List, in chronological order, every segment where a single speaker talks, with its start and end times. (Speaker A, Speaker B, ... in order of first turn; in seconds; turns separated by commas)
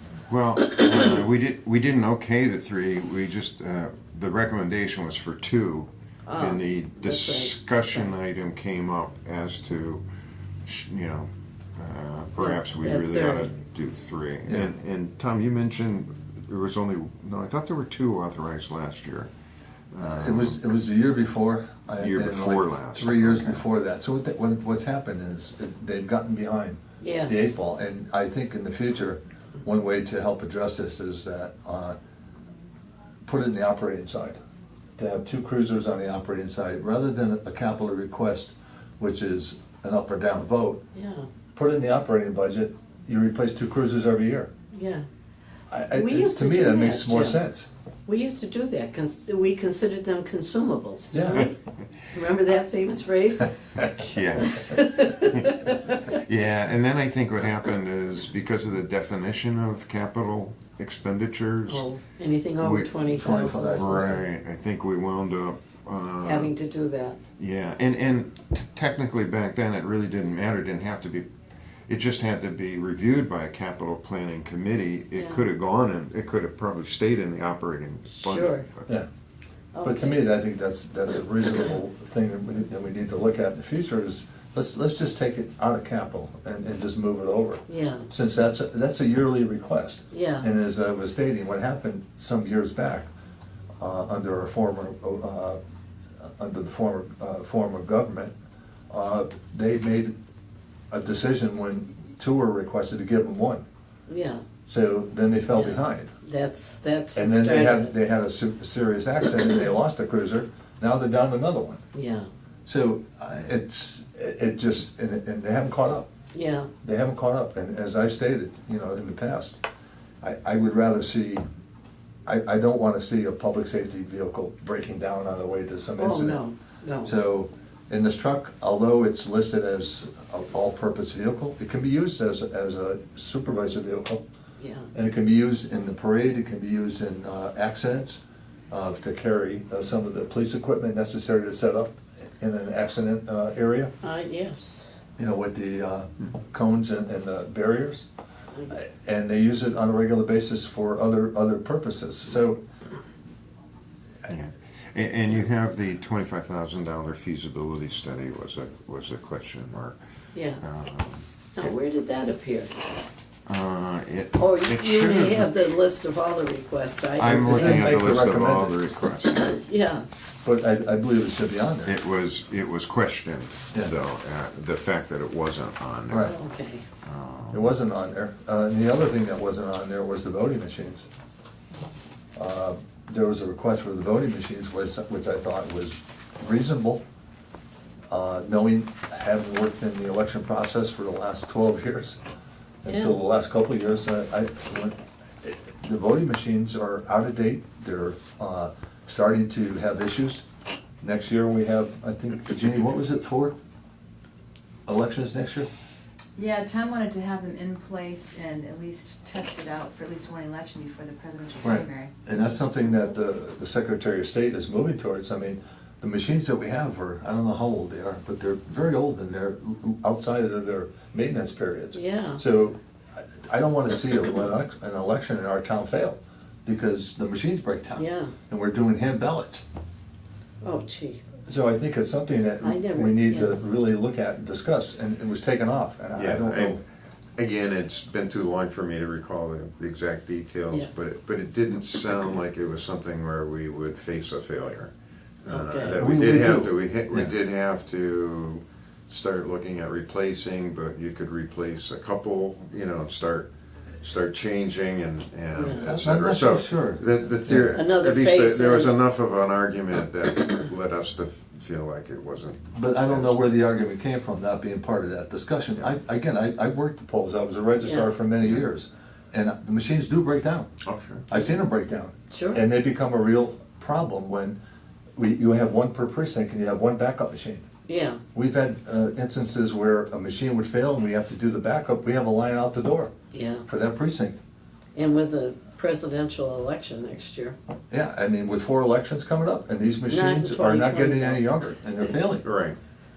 Speaker A: 0.3-10.0, Speaker B: 6.3-7.5, Speaker A: 10.6-19.3, Speaker B: 12.4-13.5, Speaker C: 14.4-14.7, Speaker A: 19.9-20.6, Speaker C: 20.1-31.9, Speaker A: 22.0-23.6, Speaker B: 27.0-27.5, Speaker C: 33.2-34.4, Speaker C: 35.0-40.8, Speaker B: 40.9-41.3, Speaker C: 41.5-44.5, Speaker B: 44.7-45.0, Speaker C: 45.7-47.7, Speaker B: 45.9-47.4, Speaker B: 48.1-51.5, Speaker C: 51.1-51.5, Speaker B: 52.1-53.5, Speaker A: 54.0-61.9, Speaker B: 54.7-56.0, Speaker B: 61.7-64.0, Speaker A: 62.6-66.5, Speaker C: 63.1-64.2, Speaker B: 66.2-67.2, Speaker A: 67.4-71.3, Speaker A: 71.9-78.9, Speaker B: 75.1-75.4, Speaker B: 78.2-78.6, Speaker B: 79.7-80.2, Speaker C: 79.8-93.1, Speaker B: 87.7-88.1, Speaker B: 90.1-90.5, Speaker C: 93.8-95.6, Speaker C: 96.4-98.3, Speaker C: 98.9-100.1, Speaker C: 100.9-103.6, Speaker B: 104.1-104.4, Speaker C: 104.7-106.1, Speaker B: 105.6-107.9, Speaker C: 107.2-111.8, Speaker B: 111.9-112.3, Speaker C: 112.7-116.1, Speaker B: 116.3-116.7, Speaker C: 116.8-119.6, Speaker C: 120.2-121.4, Speaker C: 122.2-126.4, Speaker B: 126.0-127.1, Speaker C: 127.0-134.2, Speaker B: 134.6-134.9, Speaker C: 134.9-138.2, Speaker C: 138.7-143.9, Speaker B: 144.0-144.8, Speaker C: 145.2-148.1, Speaker C: 148.7-152.6, Speaker A: 154.2-160.0, Speaker B: 160.3-160.6, Speaker A: 160.6-161.7, Speaker B: 161.6-162.7, Speaker A: 163.5-165.5, Speaker B: 164.4-167.9, Speaker A: 167.2-169.6, Speaker C: 167.3-168.8, Speaker B: 169.5-170.1, Speaker C: 170.4-171.9, Speaker A: 171.8-176.3, Speaker C: 176.1-176.3, Speaker B: 176.2-176.8, Speaker A: 177.0-177.7, Speaker C: 177.5-181.1, Speaker C: 182.3-187.0, Speaker C: 188.1-192.2, Speaker C: 192.8-200.4, Speaker B: 192.8-193.2, Speaker C: 201.0-203.5, Speaker C: 204.8-205.7, Speaker D: 206.3-212.2, Speaker C: 211.6-229.6, Speaker B: 221.9-222.4, Speaker B: 227.9-228.3, Speaker B: 230.6-231.2, Speaker C: 231.5-236.8, Speaker B: 232.6-233.6, Speaker A: 236.2-236.8, Speaker A: 237.4-244.9, Speaker A: 245.4-253.5, Speaker B: 245.5-246.0, Speaker C: 245.9-247.3, Speaker A: 254.0-263.6, Speaker B: 255.5-255.9, Speaker C: 255.8-257.8, Speaker B: 257.5-258.9, Speaker C: 262.7-270.7, Speaker B: 267.8-268.1, Speaker A: 270.8-271.2, Speaker C: 271.3-274.6, Speaker B: 272.3-272.6, Speaker C: 275.1-277.6, Speaker B: 277.9-278.2, Speaker C: 278.3-283.1, Speaker B: 283.3-283.6, Speaker C: 283.7-284.4, Speaker B: 284.9-287.6, Speaker C: 287.9-292.4, Speaker B: 290.1-291.5, Speaker A: 292.4-292.8